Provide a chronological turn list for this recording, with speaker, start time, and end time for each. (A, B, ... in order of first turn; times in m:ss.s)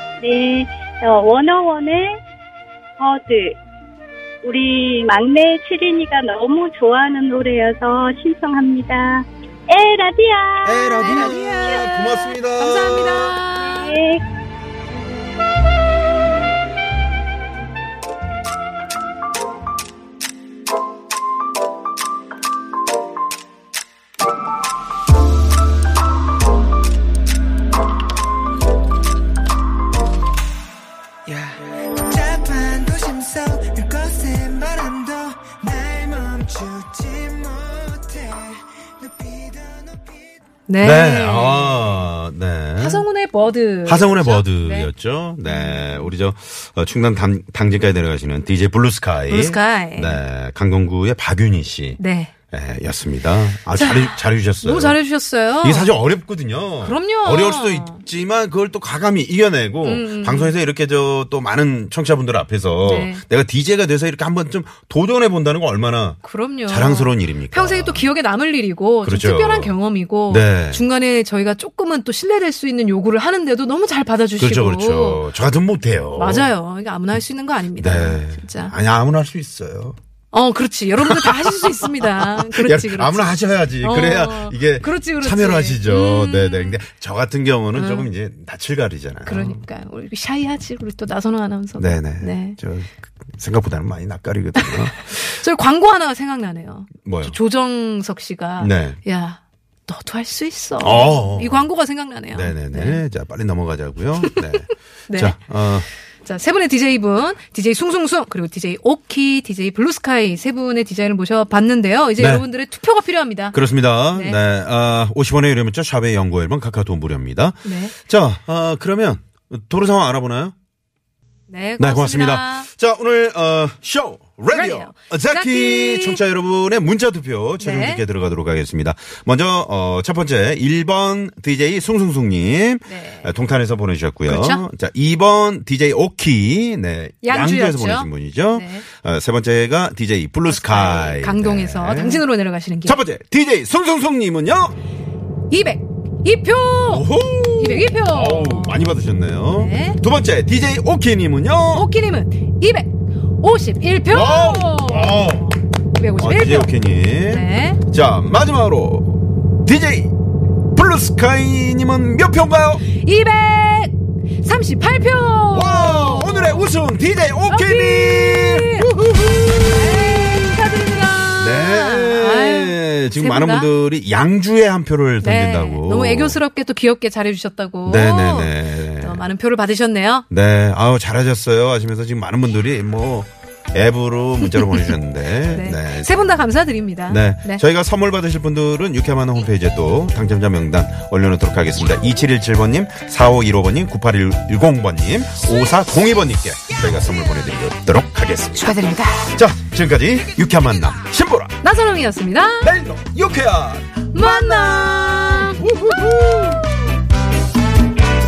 0:00.2-0:02.2 A
0:03.0-0:03.6 A
0:04.4-0:11.8 A
0:10.6-0:13.4 B
0:11.0-0:14.0 C
0:13.6-0:14.2 A
0:32.1-0:35.0 D
0:35.8-0:37.1 D
0:37.6-0:38.4 D
0:39.2-0:39.5 D
0:40.7-0:41.8 C
0:40.8-0:43.0 B
0:42.8-0:44.9 C
0:43.8-0:52.0 B
0:45.4-0:46.1 C
0:49.3-0:50.2 C
0:52.0-0:52.3 C
0:52.5-0:55.0 B
0:53.7-0:55.9 C
0:55.6-1:08.1 B
0:56.8-0:58.0 C
0:59.8-1:00.6 C
1:02.8-1:03.2 C
1:06.2-1:15.3 C
1:09.0-1:09.8 B
1:10.3-1:10.8 B
1:14.4-1:16.5 B
1:16.2-1:18.7 C
1:17.8-1:20.0 B
1:20.3-1:26.8 C
1:21.0-1:29.6 B
1:27.7-1:28.1 C
1:29.2-1:32.6 C
1:31.8-1:35.0 B
1:34.6-1:43.0 C
1:37.0-1:37.4 B
1:38.6-1:39.0 B
1:40.8-1:41.7 B
1:42.3-1:45.9 B
1:45.1-1:45.4 C
1:46.2-1:53.6 C
1:52.2-1:52.5 B
1:53.5-2:00.5 B
1:54.1-1:54.4 C
1:57.6-1:57.9 C
2:01.5-2:02.7 C
2:01.8-2:22.2 B
2:04.5-2:06.2 C
2:07.6-2:08.0 C
2:12.8-2:13.3 C
2:14.2-2:14.6 C
2:17.2-2:18.8 C
2:20.4-2:23.0 C
2:22.8-2:24.8 B
2:25.5-2:27.0 C
2:26.9-2:31.9 B
2:27.6-2:28.9 C
2:29.5-2:30.0 C
2:31.7-2:32.9 C
2:33.4-2:36.7 C
2:34.1-2:35.5 B
2:36.2-2:40.1 B
2:37.2-2:37.8 C
2:40.7-2:42.8 B
2:42.8-2:46.7 C
2:45.5-2:50.2 B
2:47.4-2:48.9 C
2:49.7-2:53.7 C
2:51.4-2:56.4 B
2:55.2-3:00.2 C
2:57.8-2:59.2 B
3:00.3-3:06.4 B
3:04.4-3:04.9 C
3:05.5-3:07.6 C
3:07.1-3:21.5 B
3:18.6-3:19.3 C
3:21.6-3:22.7 C
3:22.6-3:26.7 B
3:24.1-3:25.6 C